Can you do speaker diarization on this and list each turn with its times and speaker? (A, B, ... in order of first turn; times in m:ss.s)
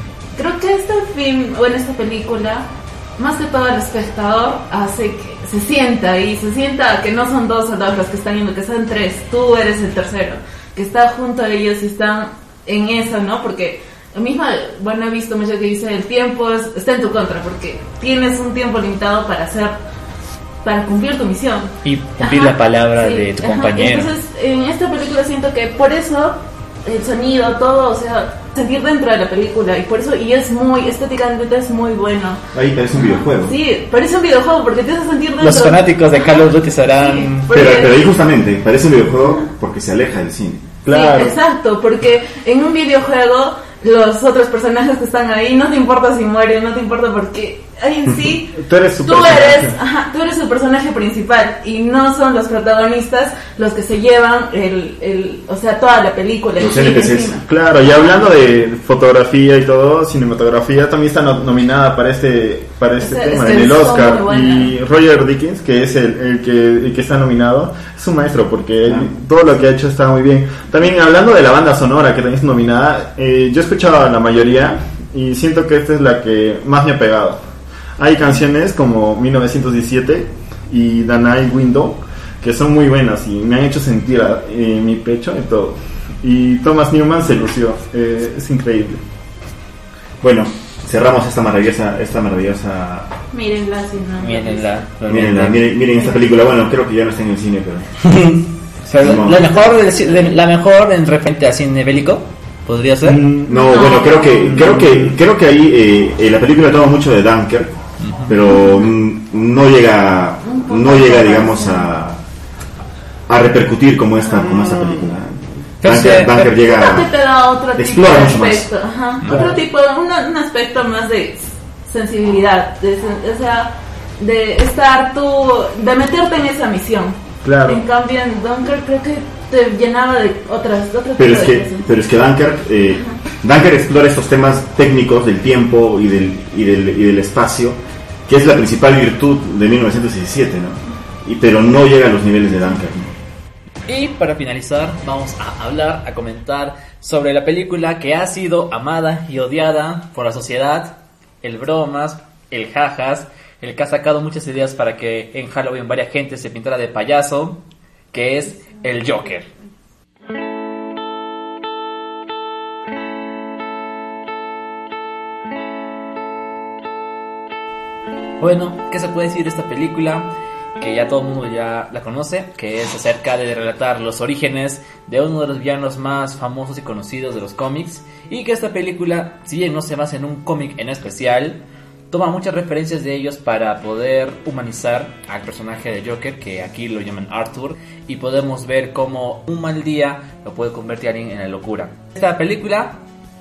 0:00.4-0:19.8 A
0:20.6-0:32.4 A
0:21.8-0:24.1 B
0:32.5-0:33.5 C
0:32.9-0:36.4 A
0:35.4-0:37.8 B
0:37.0-0:38.0 A
0:37.5-0:40.8 C
0:40.8-0:41.4 D
0:40.9-0:57.4 A
0:48.5-0:49.7 D
0:56.6-0:57.4 C
0:57.4-1:17.4 D
1:03.0-1:04.7 A
1:18.0-1:29.0 D
1:30.2-1:33.1 C
1:33.3-1:34.8 A
1:34.2-1:35.6 B
1:35.0-1:38.0 C
1:38.9-1:43.3 B
1:38.9-1:39.6 C
1:43.0-1:45.2 D
1:43.4-1:52.2 C
1:43.5-1:44.6 A
1:48.0-1:48.3 B
1:50.4-1:51.9 A
1:53.3-1:57.1 C
1:54.3-1:55.0 D
1:55.8-1:56.5 B
1:56.6-2:11.8 A
1:57.7-1:58.7 C
1:59.2-1:59.5 B
1:59.3-1:59.5 D
2:07.4-2:07.8 D
2:11.2-2:23.1 C
2:23.9-2:39.5 B
2:48.4-3:13.0 B